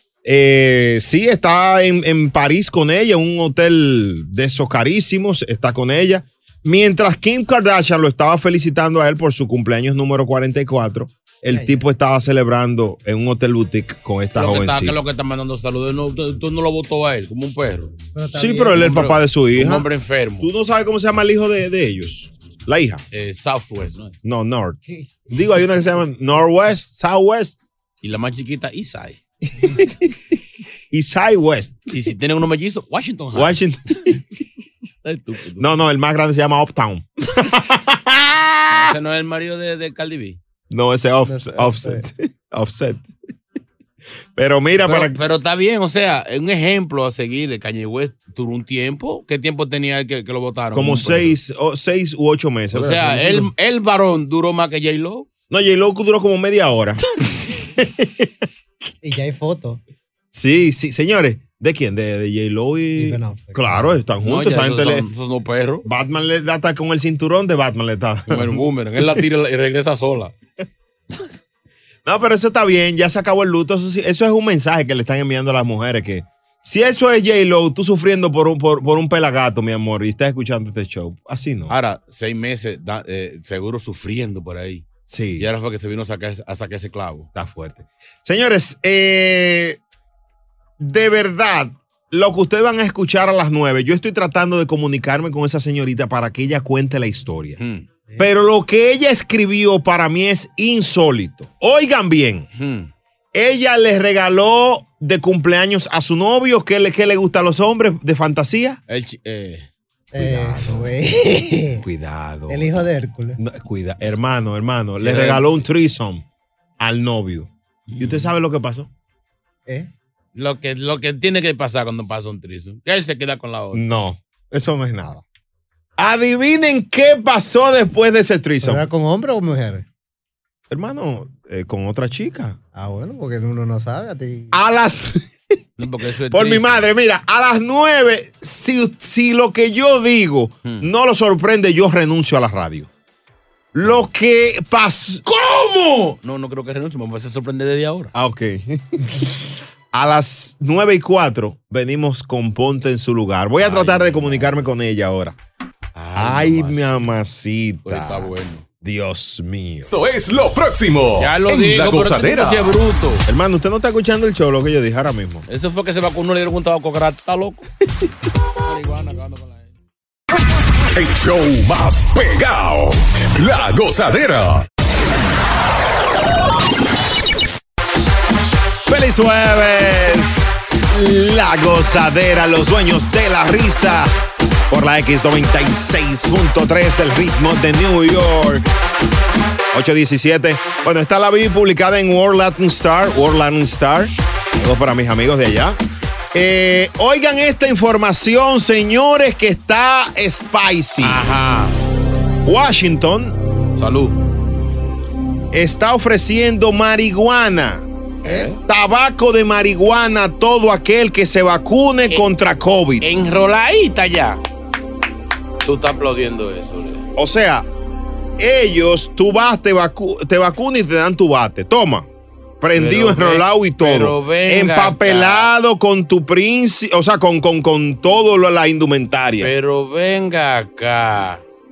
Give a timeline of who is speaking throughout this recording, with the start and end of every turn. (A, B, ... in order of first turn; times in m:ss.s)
0:00.2-0:15.0 A
0:11.5-0:11.8 B
0:14.4-0:17.9 C
0:18.2-0:18.9 B
0:18.4-0:19.9 A
0:18.8-0:20.5 C
0:20.4-0:23.0 A
0:23.1-0:24.2 C
0:24.2-0:27.6 A
0:28.0-0:29.2 C
0:29.5-0:30.2 A
0:30.9-0:31.8 A
0:31.9-0:33.6 C
0:33.3-0:34.2 A
0:35.0-0:35.7 C
0:35.6-0:38.9 A
0:38.7-0:40.4 C
0:40.7-0:43.1 A
0:41.3-0:42.0 B
0:44.4-0:45.2 A
0:44.8-0:51.4 C
0:50.7-0:53.5 A
0:52.7-0:55.3 C
0:55.5-0:57.0 A
0:57.6-0:58.3 A
0:59.0-0:59.8 B
1:00.3-1:05.1 A
1:03.0-1:04.0 B
1:04.2-1:05.8 C
1:05.8-1:09.2 A
1:08.3-1:10.3 C
1:12.0-1:21.8 A
1:21.7-1:24.9 C
1:25.1-1:25.5 A
1:25.4-1:27.3 C
1:27.4-1:29.8 A
1:30.8-1:37.6 A
1:37.6-1:37.8 C
1:38.1-1:38.3 B
1:38.2-1:42.5 A
1:42.6-1:42.9 C
1:43.3-1:48.8 A
1:48.9-1:49.7 C
1:50.1-1:51.8 B
1:50.2-1:50.9 A
1:51.8-1:56.2 A
1:52.5-1:53.4 B
1:55.0-1:55.6 C
1:56.8-1:58.9 A
1:57.9-1:58.3 C
2:00.4-2:03.8 C
2:03.7-2:05.2 A
2:06.0-2:08.9 A
2:08.6-2:09.8 B
2:10.7-2:12.6 A
2:12.8-2:14.6 B
2:14.5-2:15.3 A
2:15.8-2:16.9 C
2:16.3-2:22.9 A
2:23.7-2:25.2 A
2:25.3-2:28.1 C
2:28.1-2:35.4 A
2:33.6-2:34.6 C
2:36.0-2:36.9 C
2:36.2-2:38.3 A
2:37.9-2:38.6 C
2:38.8-2:39.9 A
2:39.9-2:42.8 D
2:41.2-2:43.2 C
2:43.3-2:45.4 A
2:45.5-2:47.6 C
2:48.7-2:49.7 C
2:50.9-2:54.7 D
2:58.9-3:04.1 A
3:04.7-3:08.7 A
3:09.7-3:15.8 A
3:16.3-3:21.2 A
3:21.0-3:21.8 C
3:22.4-3:23.4 A
3:23.8-3:24.2 C
3:25.5-3:33.1 A
3:28.2-3:28.6 C
3:33.0-3:34.4 C
3:35.6-3:37.0 C
3:37.2-3:37.7 A
3:38.4-3:42.1 A
3:42.6-3:49.5 A
3:42.8-3:45.5 C
3:49.4-3:51.4 C